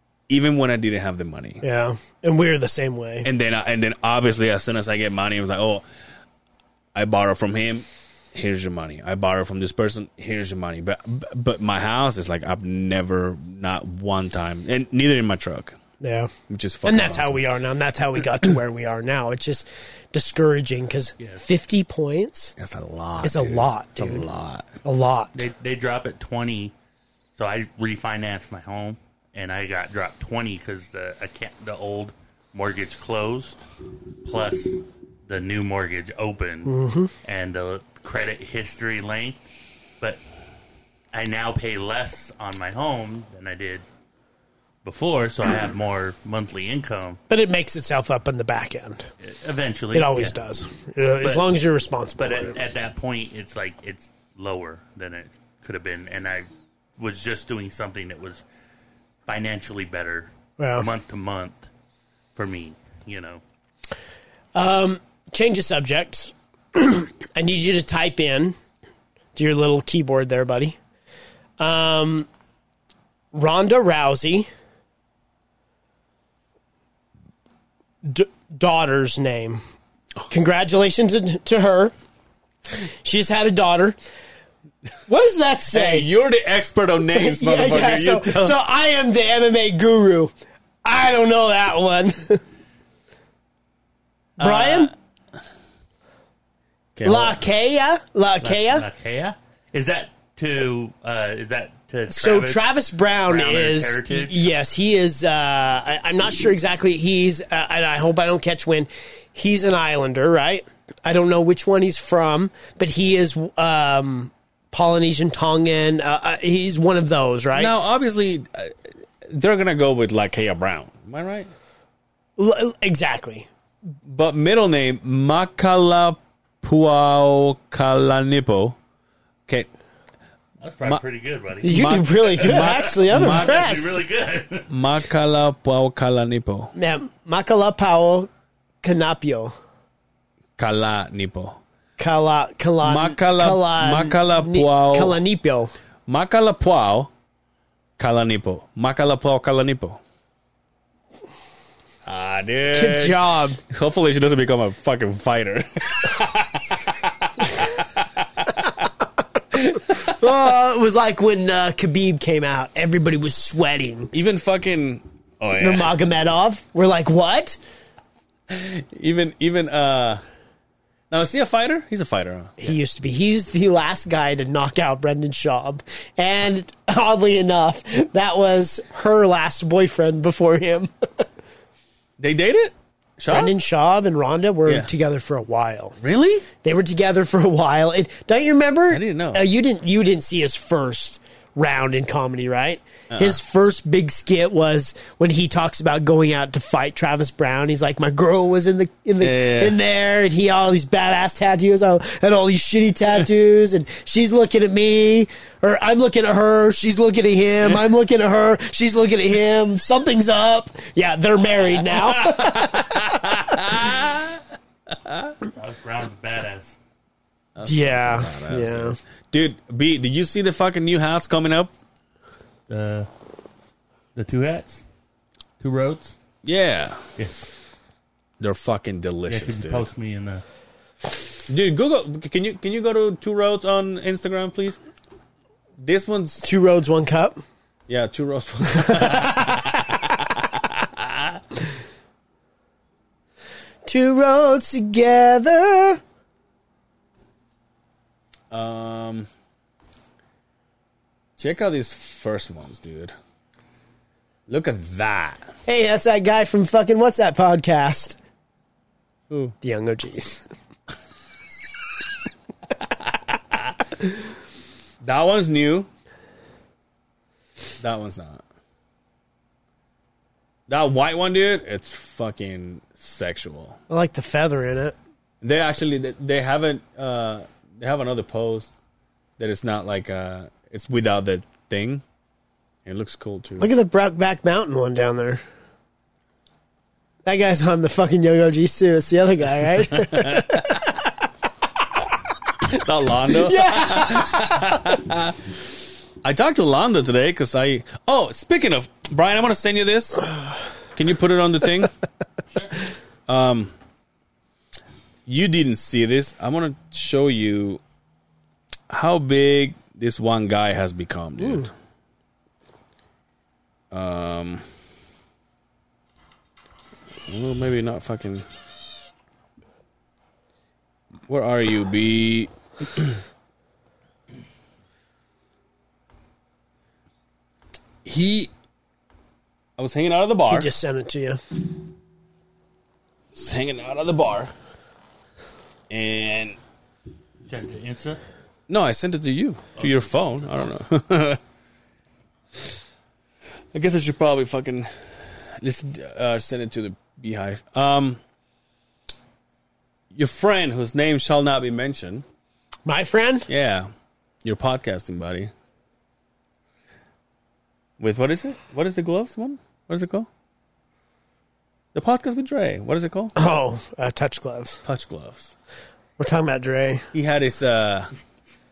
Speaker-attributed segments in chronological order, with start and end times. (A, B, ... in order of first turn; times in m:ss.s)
0:00.3-0:01.6 A
0:01.6-0:03.3 B
0:03.2-0:05.8 A
0:06.9-0:15.8 A
0:16.0-0:16.3 B
0:16.5-0:17.4 A
0:16.8-0:22.5 B
0:22.6-0:24.7 A
0:23.2-0:24.3 B
0:24.8-0:25.4 B
0:25.4-0:26.7 C
0:27.4-0:33.7 C
0:34.2-0:39.4 C
0:36.7-0:37.1 B
0:41.1-0:43.9 C
0:44.8-0:47.2 C
0:47.3-0:49.1 B
0:49.2-0:50.4 C
0:49.9-0:52.6 B
0:52.2-0:56.5 C
0:57.0-0:58.4 C
0:59.2-1:01.7 C
1:00.6-1:00.9 B
1:02.4-1:03.4 C
1:04.6-1:08.6 B
1:09.4-1:10.8 B
1:11.6-1:12.3 B
1:13.3-1:14.5 B
1:18.0-1:19.6 B
1:20.3-1:21.9 B
1:22.9-1:24.0 B
1:25.1-1:26.1 B
1:25.7-1:28.6 A
1:27.1-1:30.3 B
1:30.8-1:32.4 B
1:34.4-1:34.9 A
1:34.4-1:34.9 B
1:37.0-1:37.4 A
1:37.0-1:38.9 B
1:38.4-1:44.5 C
1:42.1-1:57.7 B
1:57.5-2:01.5 A
2:02.4-2:03.5 B
2:04.0-2:08.8 A
2:10.6-2:14.7 C
2:11.6-2:14.0 B
2:11.7-2:13.7 A
2:14.7-2:16.7 A
2:16.8-2:18.3 B
2:18.8-2:19.6 B
2:20.6-2:21.6 A
2:22.0-2:25.7 B
2:22.8-2:25.2 A
2:26.1-2:27.1 A
2:28.0-2:30.0 A
2:32.0-2:38.9 A
2:32.7-2:33.6 B
2:39.5-2:40.1 A
2:39.9-2:44.1 B
2:44.1-2:45.9 A
2:45.6-2:47.6 B
2:48.5-2:50.2 A
2:51.1-2:52.8 A
2:52.6-3:01.2 B
3:02.2-3:03.6 A
3:03.3-3:06.0 B
3:06.0-3:06.5 A
3:06.6-3:33.2 B
3:08.9-3:09.4 A
3:13.1-3:13.4 A
3:19.2-3:19.8 A
3:31.8-3:35.4 A
3:35.5-3:36.8 C
3:37.6-3:41.7 A
3:37.6-3:39.0 B
3:42.7-3:43.1 C
3:44.2-3:44.8 C
3:45.6-3:46.2 C
3:46.4-3:47.1 A
3:47.2-3:47.5 C
3:48.4-3:49.9 A
3:49.3-3:50.4 C
3:51.5-3:54.8 A
3:55.8-3:56.5 A
3:56.4-3:57.4 B
3:57.9-4:01.4 A
3:58.9-3:59.1 B
4:03.8-4:06.0 B
4:08.5-4:09.3 A
4:11.4-4:13.1 A
4:14.5-4:15.5 A
4:15.7-4:18.2 B
4:19.3-4:19.6 A
4:19.6-4:20.4 B
4:23.1-4:23.8 A
4:25.0-4:25.9 A
4:27.8-4:28.4 A
4:30.7-4:33.8 A
4:33.9-4:35.0 B
4:35.4-4:38.7 A
4:39.4-4:42.0 A
4:42.8-4:43.7 A
4:43.6-4:45.4 B
4:47.2-4:50.9 B
4:49.9-4:50.9 A
4:52.6-4:55.4 A
4:53.4-4:54.6 B
4:56.2-5:00.3 A
5:01.0-5:01.9 A
5:03.3-5:03.7 A
5:05.3-5:07.8 A
5:08.9-5:11.7 A
5:13.9-5:14.6 A
5:17.3-5:18.5 A
5:21.3-5:23.2 A
5:28.0-5:28.5 A
5:29.8-5:30.7 A
5:30.5-5:31.4 B
5:33.3-5:34.5 A
5:35.9-5:36.6 A
5:37.4-5:38.2 C
5:38.7-5:41.4 A
5:43.7-5:48.2 A
5:50.1-5:52.2 A
5:52.8-5:53.5 B
5:53.5-5:53.9 A
5:54.4-5:55.5 A
5:58.0-6:00.3 A
6:01.9-6:03.4 A
6:03.4-6:04.8 B
6:04.8-6:05.5 A
6:06.2-6:07.1 B
6:07.1-6:08.1 A